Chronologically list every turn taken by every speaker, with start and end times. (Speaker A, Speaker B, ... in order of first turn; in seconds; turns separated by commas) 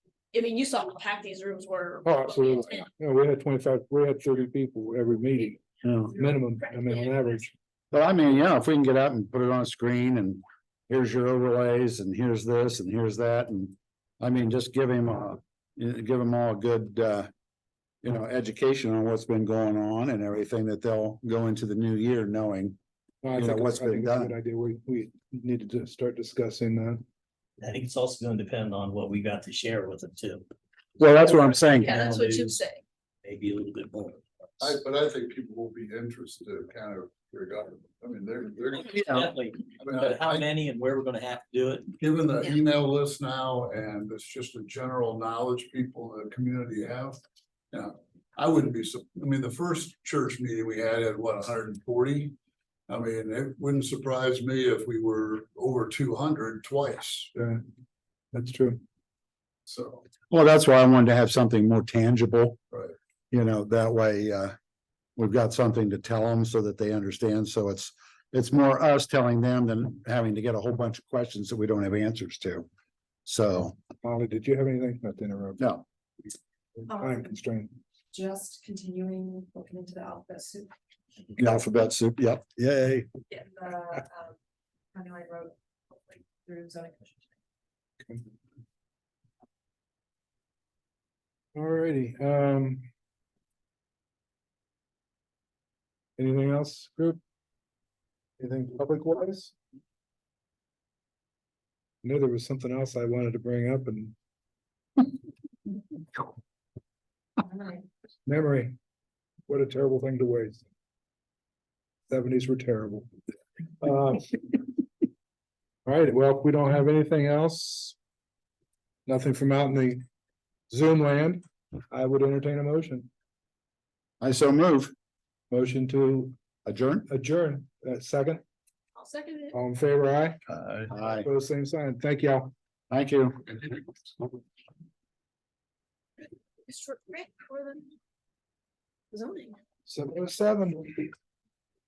Speaker A: 0.3-2.9, Speaker B: 2.0-5.6, Speaker C: 5.8-6.2, Speaker B: 6.1-7.5, Speaker C: 7.9-17.3, Speaker C: 18.0-22.8, Speaker B: 23.2-27.0, Speaker C: 23.4-24.4, Speaker D: 27.6-30.5, Speaker C: 31.0-31.9, Speaker D: 31.6-32.6, Speaker A: 31.8-32.8, Speaker D: 33.2-34.2, Speaker E: 34.6-40.5, Speaker D: 38.8-41.9, Speaker E: 42.0-47.2, Speaker E: 47.7-52.4, Speaker E: 52.9-57.3, Speaker B: 57.4-57.6, Speaker B: 58.3-58.8, Speaker E: 59.7-60.0, Speaker C: 60.3-62.6, Speaker C: 63.3-64.5, Speaker C: 65.2-72.7, Speaker C: 73.3-73.8, Speaker B: 74.0-75.7, Speaker C: 75.6-75.8, Speaker B: 76.8-77.7, Speaker F: 76.9-77.3, Speaker F: 78.1-80.7, Speaker C: 81.4-83.1, Speaker F: 83.3-84.4, Speaker F: 84.9-87.3, Speaker B: 91.5-92.9, Speaker B: 96.2-97.2, Speaker B: 98.4-99.5, Speaker B: 102.0-104.1, Speaker F: 107.4-107.8, Speaker B: 108.3-108.8, Speaker B: 109.5-110.7, Speaker B: 112.1-113.1, Speaker B: 113.8-114.4, Speaker B: 115.9-118.0, Speaker B: 119.1-120.0, Speaker B: 120.7-123.1, Speaker C: 124.2-124.9, Speaker B: 125.5-126.3, Speaker C: 126.7-127.1, Speaker B: 127.1-128.4, Speaker A: 129.0-129.6, Speaker B: 129.5-130.4, Speaker E: 130.6-130.8, Speaker C: 130.9-131.3, Speaker B: 131.1-132.5, Speaker C: 132.9-133.8, Speaker A: 136.7-137.9, Speaker A: 139.1-139.6, Speaker B: 139.9-141.1